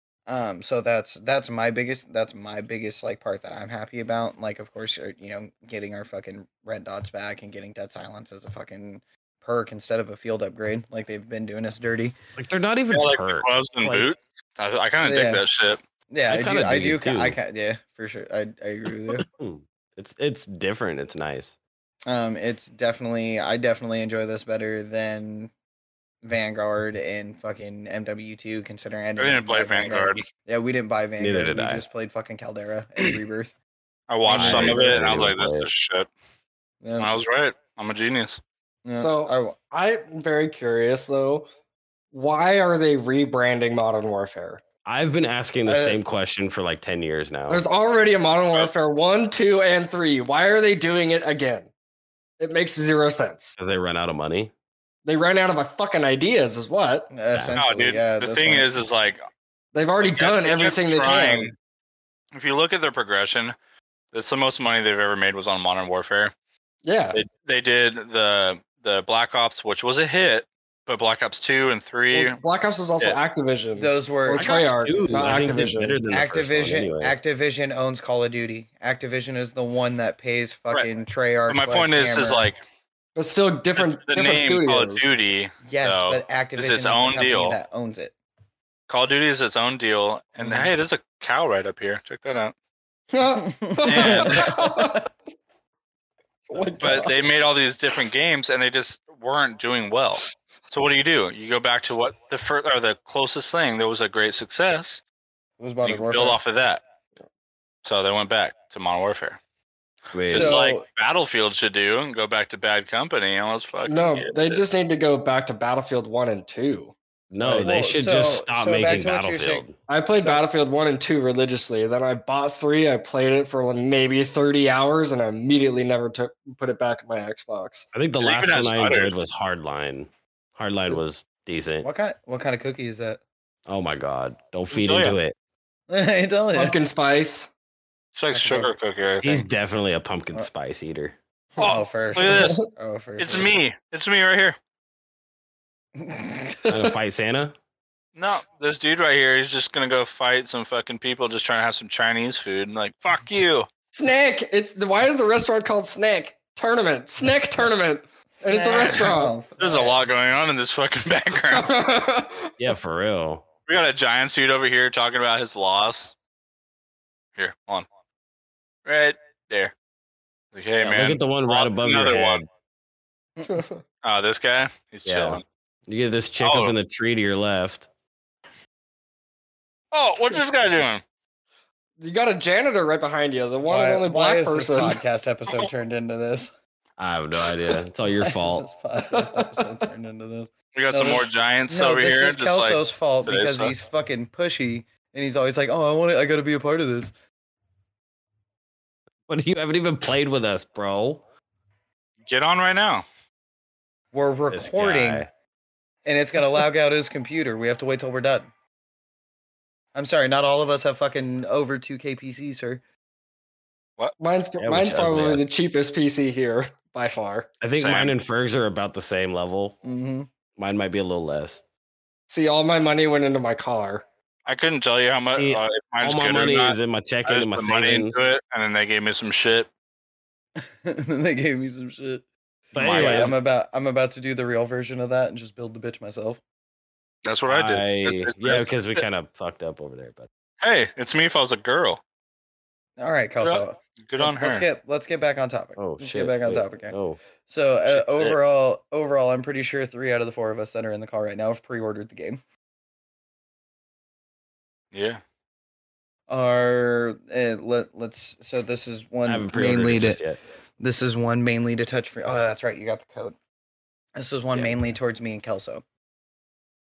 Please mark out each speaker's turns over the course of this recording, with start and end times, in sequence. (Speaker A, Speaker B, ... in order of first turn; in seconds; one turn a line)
Speaker A: 0.3-12.2
Speaker B: 12.4-14.1
Speaker C: 12.9-15.8
Speaker A: 15.0-15.4
Speaker A: 16.1-19.2
Speaker B: 16.3-17.4
Speaker B: 19.1-21.6
Speaker A: 22.1-25.5
Speaker A: 26.2-33.5
Speaker C: 29.2-30.2
Speaker B: 31.2-31.9
Speaker C: 34.1-36.1
Speaker A: 34.3-35.1
Speaker B: 34.3-35.7
Speaker A: 36.8-37.1
Speaker C: 37.0-38.4
Speaker A: 38.9-39.6
Speaker D: 39.0-41.5
Speaker D: 42.1-44.6
Speaker B: 44.9-47.6
Speaker A: 45.7-46.0
Speaker D: 47.5-51.7
Speaker D: 52.4-53.6
Speaker B: 53.6-54.5
Speaker D: 55.0-57.1
Speaker A: 57.1-58.7
Speaker C: 57.5-59.2
Speaker D: 59.7-61.5
Speaker C: 60.0-61.5
Speaker C: 62.3-63.5
Speaker C: 64.1-66.3
Speaker D: 66.8-67.2
Speaker C: 67.1-72.4
Speaker D: 72.1-76.0
Speaker A: 73.8-74.6
Speaker B: 74.3-77.2
Speaker A: 76.1-82.5
Speaker C: 81.5-82.6
Speaker D: 83.2-85.1
Speaker C: 83.8-87.6
Speaker A: 85.7-88.2
Speaker C: 88.9-92.5
Speaker A: 90.4-90.7
Speaker D: 93.1-95.0
Speaker A: 93.5-95.0
Speaker C: 93.9-94.6
Speaker D: 96.5-97.2
Speaker C: 96.8-105.0
Speaker A: 105.6-106.4
Speaker C: 105.8-106.8
Speaker C: 107.8-109.4
Speaker B: 110.1-110.6
Speaker C: 110.3-114.6
Speaker A: 110.3-110.8
Speaker D: 113.9-116.9
Speaker B: 117.3-119.8
Speaker A: 117.4-119.7
Speaker D: 119.9-127.9
Speaker B: 127.9-131.9
Speaker C: 128.2-129.2
Speaker A: 131.8-133.2
Speaker B: 133.7-135.3
Speaker C: 134.7-135.2
Speaker A: 135.9-136.8
Speaker D: 136.6-137.5
Speaker C: 138.2-139.4
Speaker A: 138.3-138.7
Speaker B: 139.2-141.2
Speaker A: 141.6-143.6
Speaker C: 141.6-142.6
Speaker D: 141.6-142.7
Speaker C: 143.2-144.6
Speaker A: 146.0-146.8
Speaker B: 146.7-147.6
Speaker C: 148.2-153.7
Speaker D: 153.9-159.3
Speaker A: 158.4-159.9
Speaker C: 158.7-159.0
Speaker C: 159.6-161.7
Speaker D: 161.5-162.5
Speaker B: 162.6-163.4
Speaker C: 163.7-166.1
Speaker C: 167.4-167.9
Speaker C: 168.9-169.7
Speaker C: 170.5-172.4
Speaker B: 170.8-172.5
Speaker D: 173.5-173.8
Speaker C: 174.0-175.4
Speaker B: 175.1-177.9
Speaker C: 176.4-176.8
Speaker C: 179.9-181.0
Speaker D: 182.0-185.0
Speaker A: 183.7-186.5
Speaker B: 187.0-188.7
Speaker A: 188.2-197.1
Speaker D: 189.1-189.7
Speaker C: 190.8-193.7
Speaker B: 199.3-201.2
Speaker C: 202.3-203.1
Speaker A: 204.1-205.3
Speaker B: 204.5-205.3
Speaker A: 206.1-208.5
Speaker A: 209.9-212.8
Speaker D: 214.2-217.5
Speaker B: 214.6-215.4
Speaker B: 217.6-219.8
Speaker C: 217.8-218.1
Speaker A: 219.8-220.3
Speaker B: 220.6-221.6
Speaker D: 222.3-224.1
Speaker C: 224.5-229.7
Speaker B: 225.4-228.3
Speaker A: 230.6-236.4
Speaker B: 232.7-233.4
Speaker C: 232.8-233.3
Speaker C: 237.2-239.0
Speaker B: 237.5-240.3
Speaker C: 240.6-242.0
Speaker A: 243.0-252.4
Speaker C: 243.4-244.7
Speaker B: 245.8-247.2
Speaker C: 247.9-248.4
Speaker C: 254.9-255.2
Speaker A: 256.3-260.2
Speaker B: 259.2-260.4
Speaker A: 260.8-263.4
Speaker A: 264.2-265.8
Speaker B: 264.5-264.8